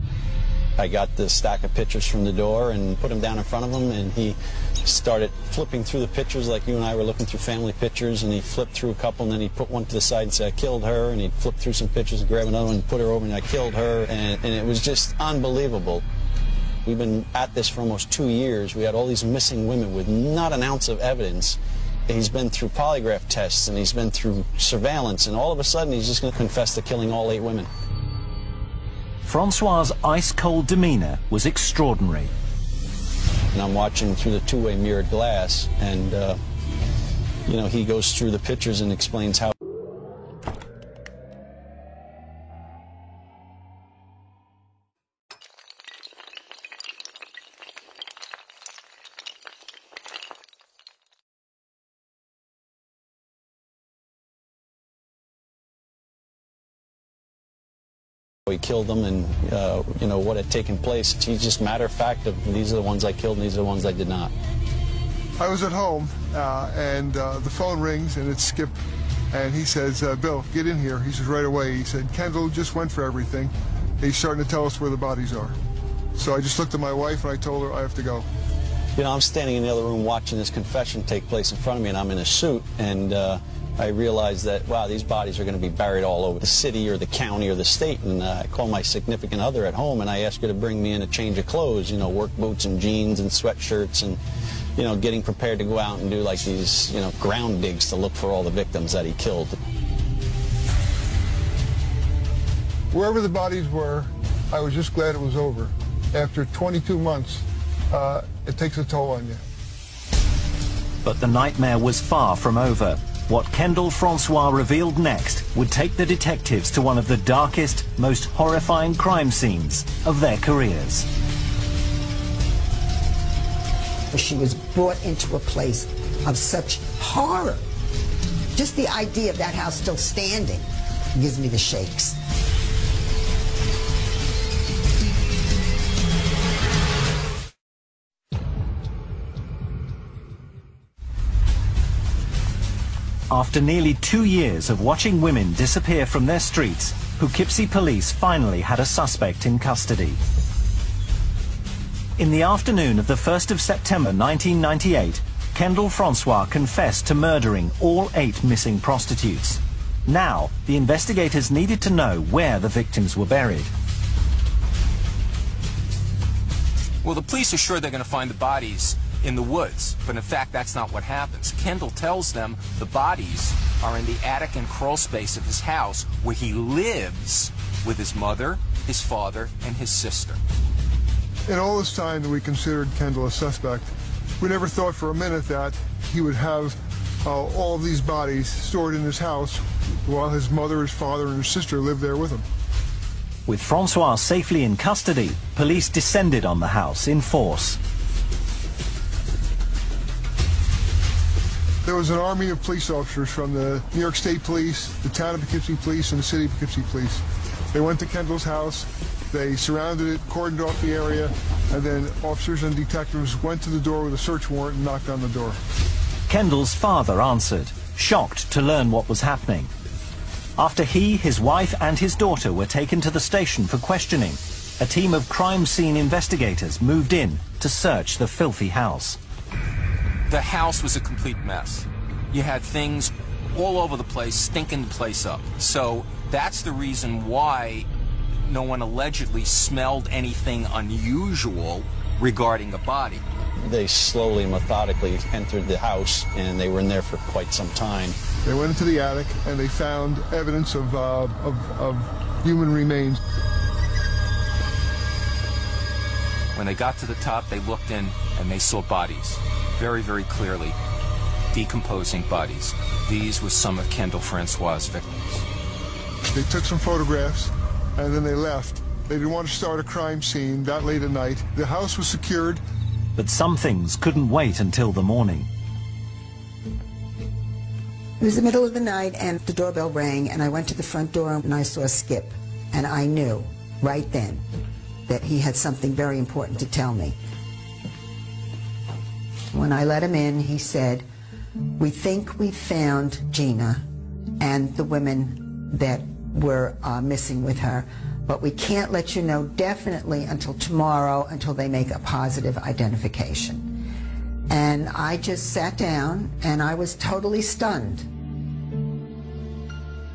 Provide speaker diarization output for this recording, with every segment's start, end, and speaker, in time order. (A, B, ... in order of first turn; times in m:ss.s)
0:00.8-0:16.0 A
0:16.8-0:27.7 A
0:29.2-0:32.3 B
0:33.5-0:36.4 A
0:37.4-0:39.5 A
0:58.5-1:04.3 A
1:05.4-1:08.8 C
1:09.3-1:15.6 C
1:16.1-1:18.2 C
1:19.0-1:34.2 A
1:34.8-1:39.6 A
1:42.9-1:49.4 C
1:51.0-2:01.1 B
2:04.1-2:07.6 D
2:08.5-2:12.2 D
2:23.3-2:30.2 B
2:32.2-2:43.7 B
2:47.0-3:00.4 E
3:01.5-3:12.4 C
3:13.4-3:17.8 B
3:21.8-3:35.6 C
3:36.3-3:39.7 B
3:40.6-3:49.2 B
3:50.3-3:57.9 E
3:58.5-4:03.2 E
4:03.6-4:08.2 A
4:08.4-4:13.2 C
4:16.5-4:20.8 E
4:21.5-4:25.1 E
4:26.3-4:32.6 C
4:33.2-4:35.5 B
4:38.2-4:44.4 D
4:45.1-4:47.2 D
4:49.5-4:51.0 D
4:51.8-4:53.8 D
4:54.4-5:03.7 D
5:04.5-5:08.1 D